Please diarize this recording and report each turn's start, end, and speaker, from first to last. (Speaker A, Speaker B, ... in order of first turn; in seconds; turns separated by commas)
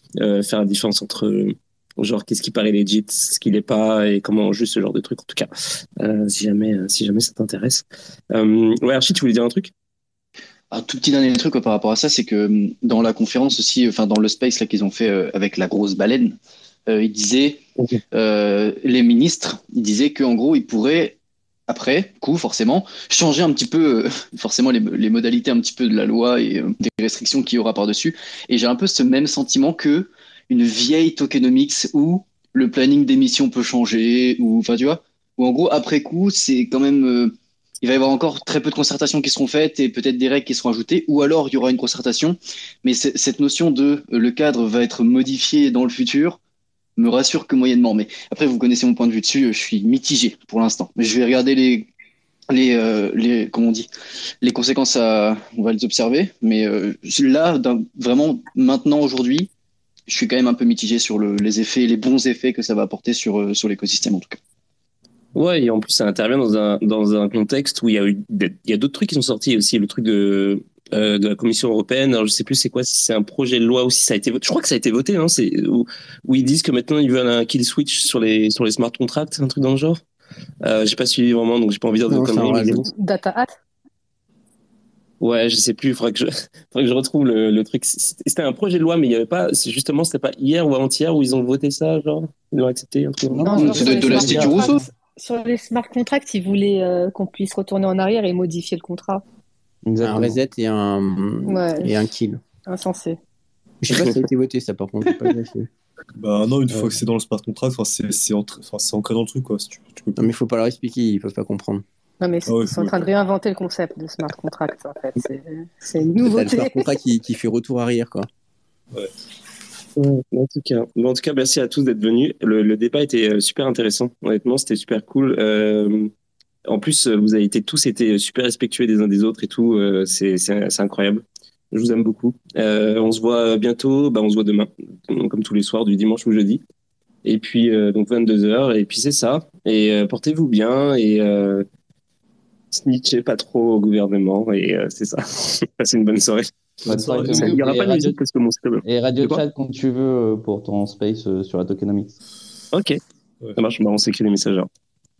Speaker A: 0.2-9.7, Speaker B: 10.7-17.6, Speaker B: 18.1-21.2, Speaker B: 21.7-46.4, Speaker B: 47.0-51.9, Speaker B: 52.5-53.9, Speaker B: 54.4-59.5, Speaker B: 60.1-64.4, Speaker A: 65.3-80.0, Speaker A: 80.6-82.8, Speaker C: 82.1-82.9, Speaker D: 82.7-83.5, Speaker A: 85.2-94.3, Speaker E: 93.3-94.8, Speaker D: 93.5-99.2, Speaker B: 93.5-94.8, Speaker E: 99.8-100.4, Speaker C: 100.0-102.4, Speaker D: 101.5-102.1, Speaker D: 102.6-103.2, Speaker C: 103.8-105.7, Speaker A: 103.9-104.2, Speaker F: 106.2-110.3, Speaker C: 110.2-111.8, Speaker D: 112.2-117.0, Speaker F: 112.5-113.1, Speaker C: 116.2-118.3, Speaker A: 120.0-126.1, Speaker A: 126.7-136.6, Speaker A: 137.2-141.7, Speaker A: 142.7-149.4, Speaker F: 146.8-147.6, Speaker E: 146.8-148.2, Speaker E: 148.8-152.2, Speaker A: 152.7-153.0, Speaker A: 153.6-154.7